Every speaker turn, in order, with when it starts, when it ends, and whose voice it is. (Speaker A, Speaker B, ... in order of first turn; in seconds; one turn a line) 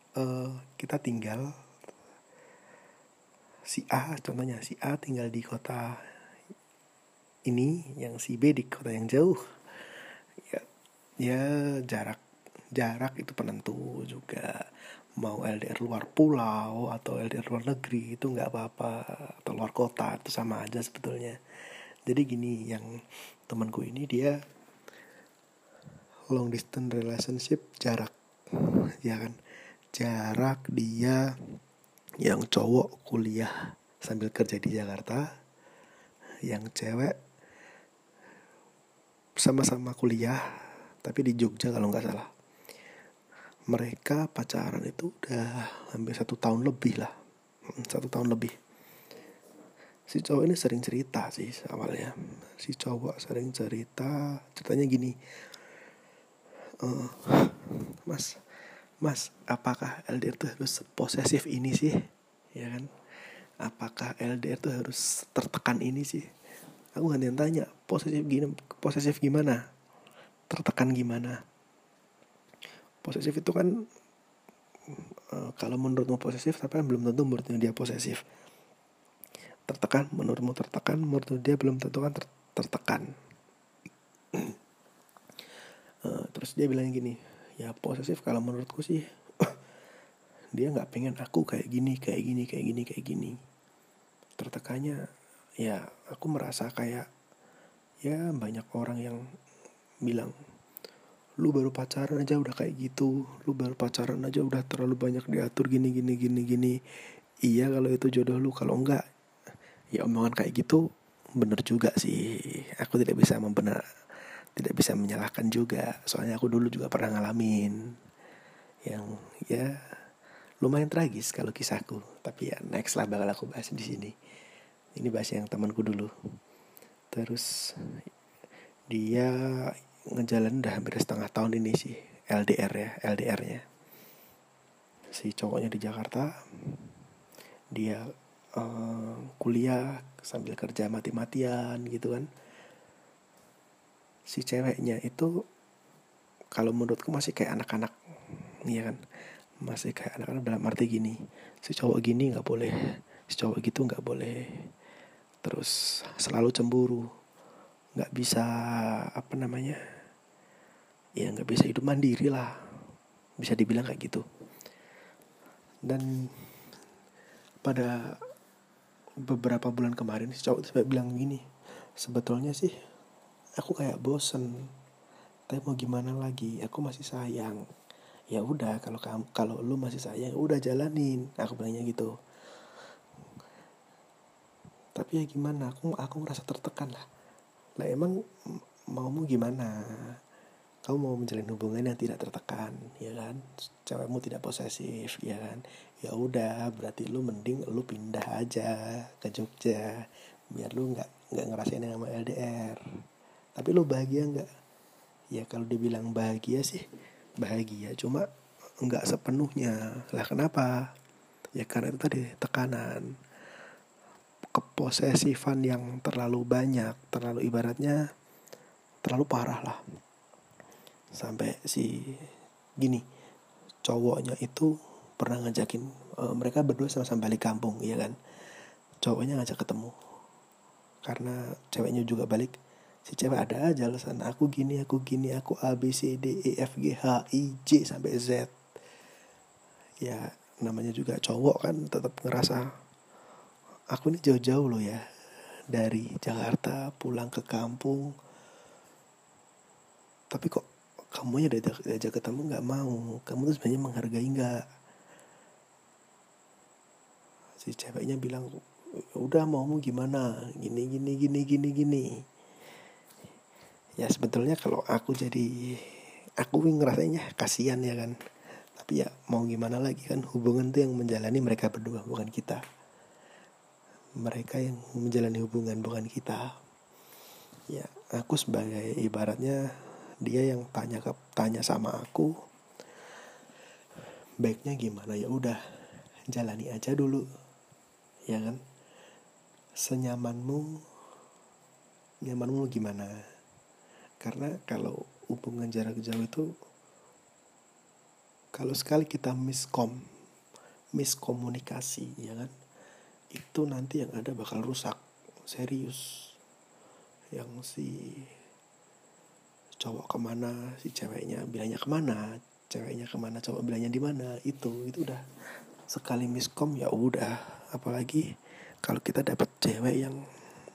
Speaker A: 0.2-1.5
Speaker A: 3.7-6.0
Speaker A: 7.5-9.4
Speaker A: 11.2-12.2
Speaker A: 12.7-14.7
Speaker A: 15.2-21.4
Speaker A: 22.1-22.9
Speaker A: 23.5-24.4
Speaker A: 26.3-29.4
Speaker A: 29.9-31.3
Speaker A: 32.2-35.2
Speaker A: 36.5-37.1
Speaker A: 39.4-40.4
Speaker A: 41.0-42.3
Speaker A: 43.7-47.1
Speaker A: 47.7-48.5
Speaker A: 50.1-55.1
Speaker A: 56.8-58.4
Speaker A: 59.0-62.0
Speaker A: 62.5-62.9
Speaker A: 63.6-66.3
Speaker A: 67.0-69.6
Speaker A: 70.5-71.4
Speaker A: 73.0-73.7
Speaker A: 74.9-78.2
Speaker A: 79.7-83.1
Speaker A: 86.0-89.6
Speaker A: 90.5-93.4
Speaker A: 94.4-95.0
Speaker A: 95.6-97.1
Speaker A: 98.0-99.2
Speaker A: 100.0-100.3
Speaker A: 101.4-106.8
Speaker A: 107.5-109.0
Speaker A: 109.9-110.8
Speaker A: 111.4-113.8
Speaker A: 114.5-117.8
Speaker A: 118.8-119.7
Speaker A: 120.6-124.1
Speaker A: 125.0-126.1
Speaker A: 127.1-127.9
Speaker A: 128.9-133.6
Speaker A: 135.1-136.8
Speaker A: 137.7-138.0
Speaker A: 138.6-142.3
Speaker A: 144.3-145.3
Speaker A: 146.5-149.0
Speaker A: 149.6-152.7
Speaker A: 153.3-154.4
Speaker A: 155.4-157.1
Speaker A: 157.9-159.8
Speaker A: 161.2-162.5
Speaker A: 163.4-164.2
Speaker A: 165.8-166.5
Speaker A: 167.6-168.2
Speaker A: 169.2-171.4
Speaker A: 172.0-172.7
Speaker A: 173.6-174.5
Speaker A: 175.5-177.6
Speaker A: 178.3-182.1
Speaker A: 185.0-187.0
Speaker A: 187.8-190.2
Speaker A: 190.8-202.8
Speaker A: 203.6-204.5
Speaker A: 205.3-206.8
Speaker A: 207.4-208.2
Speaker A: 208.8-210.7
Speaker A: 211.6-213.1
Speaker A: 214.5-218.0
Speaker A: 219.0-219.8
Speaker A: 221.2-222.3
Speaker A: 223.8-228.1
Speaker A: 229.0-229.9
Speaker A: 231.0-232.5
Speaker A: 233.1-238.5
Speaker A: 240.0-242.6
Speaker A: 243.9-245.0
Speaker A: 245.7-248.1
Speaker A: 250.3-250.6
Speaker A: 251.1-254.6
Speaker A: 257.6-258.5
Speaker A: 259.1-262.1
Speaker A: 264.0-268.1
Speaker A: 268.8-272.6
Speaker A: 274.2-276.4
Speaker A: 277.7-279.6
Speaker A: 280.2-282.3
Speaker A: 284.4-285.6
Speaker A: 286.3-287.2
Speaker A: 288.3-288.6
Speaker A: 289.8-290.8
Speaker A: 292.2-293.2
Speaker A: 294.2-296.4
Speaker A: 298.5-300.0
Speaker A: 300.9-302.5
Speaker A: 303.3-306.4
Speaker A: 307.3-308.3
Speaker A: 309.8-315.2
Speaker A: 315.9-318.2
Speaker A: 318.8-320.2